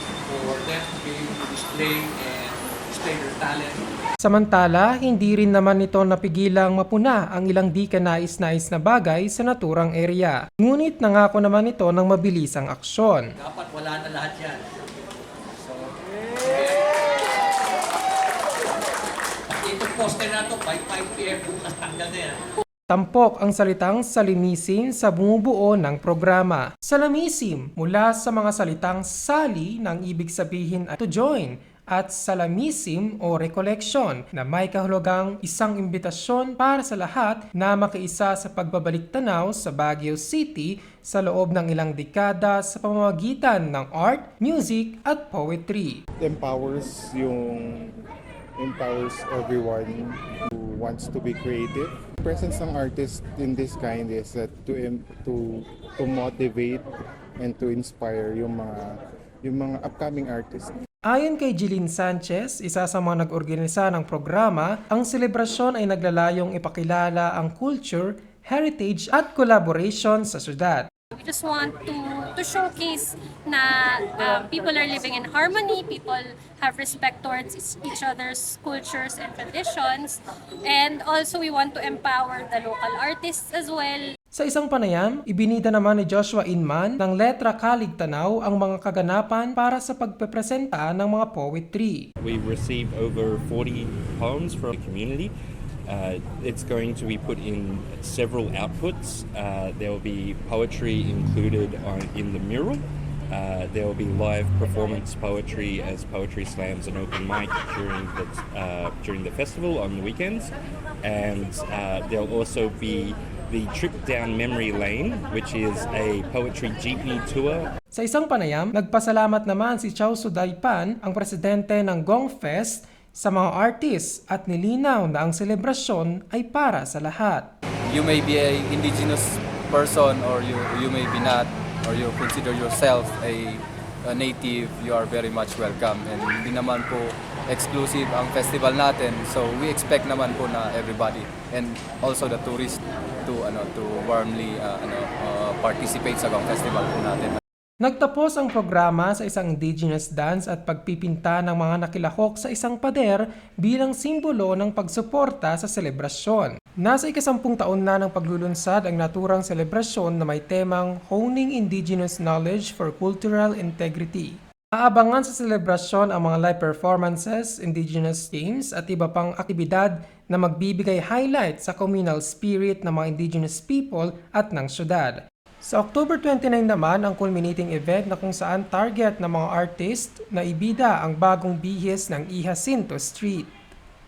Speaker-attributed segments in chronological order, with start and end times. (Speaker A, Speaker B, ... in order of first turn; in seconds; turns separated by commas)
Speaker A: 0.2-3.8, Speaker B: 4.2-13.3, Speaker A: 13.4-14.8, Speaker A: 15.6-17.2, Speaker A: 19.5-22.4, Speaker B: 22.9-46.0, Speaker C: 46.2-48.0, Speaker C: 48.6-56.9, Speaker C: 57.4-60.7, Speaker B: 61.1-70.9, Speaker D: 71.1-84.1, Speaker B: 84.4-92.0, Speaker E: 92.2-95.3, Speaker E: 95.9-110.5, Speaker E: 111.0-117.7, Speaker B: 117.9-127.5, Speaker F: 127.9-147.4, Speaker B: 147.8-183.5